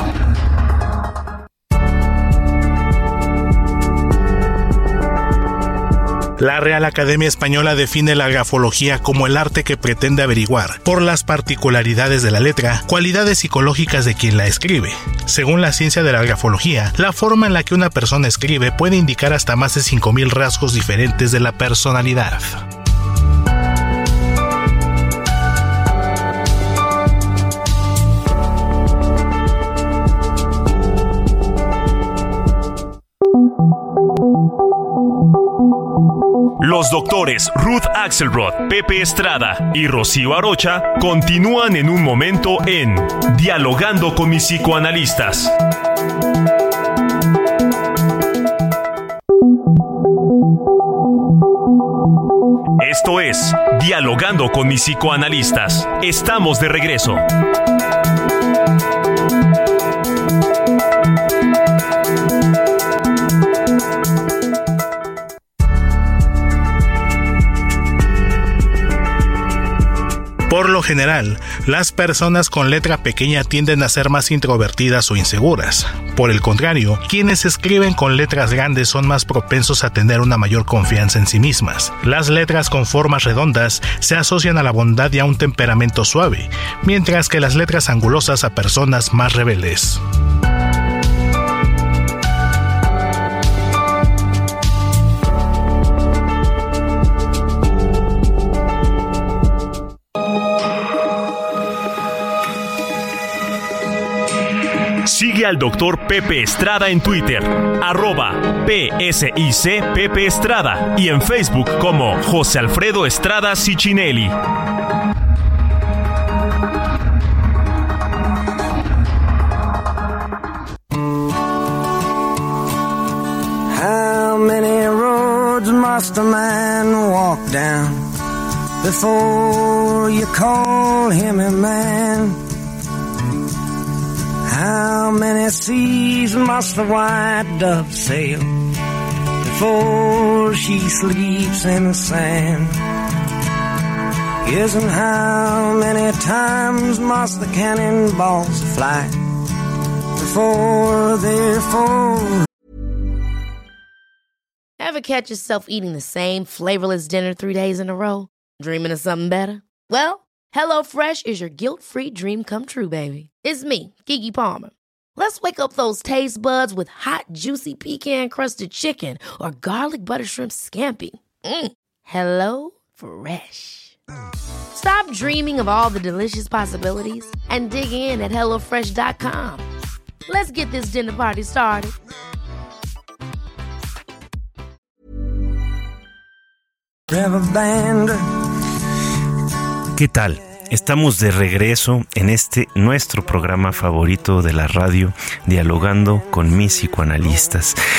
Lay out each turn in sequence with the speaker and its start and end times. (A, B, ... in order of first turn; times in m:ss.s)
0:06.4-0:22.6 A
0:36.6-0:45.5 B
0:52.8-0:57.2 B
1:10.5-1:30.0 A
1:45.0-1:54.3 B
2:03.7-2:08.0 C
2:08.8-2:12.4 C
2:14.5-2:18.6 C
2:19.4-2:22.8 C
2:24.4-2:29.2 C
2:30.2-2:32.4 C
2:34.8-2:54.0 D
2:54.7-2:59.6 D
3:00.3-3:01.9 D
3:07.1-3:08.2 C
3:09.9-3:17.8 E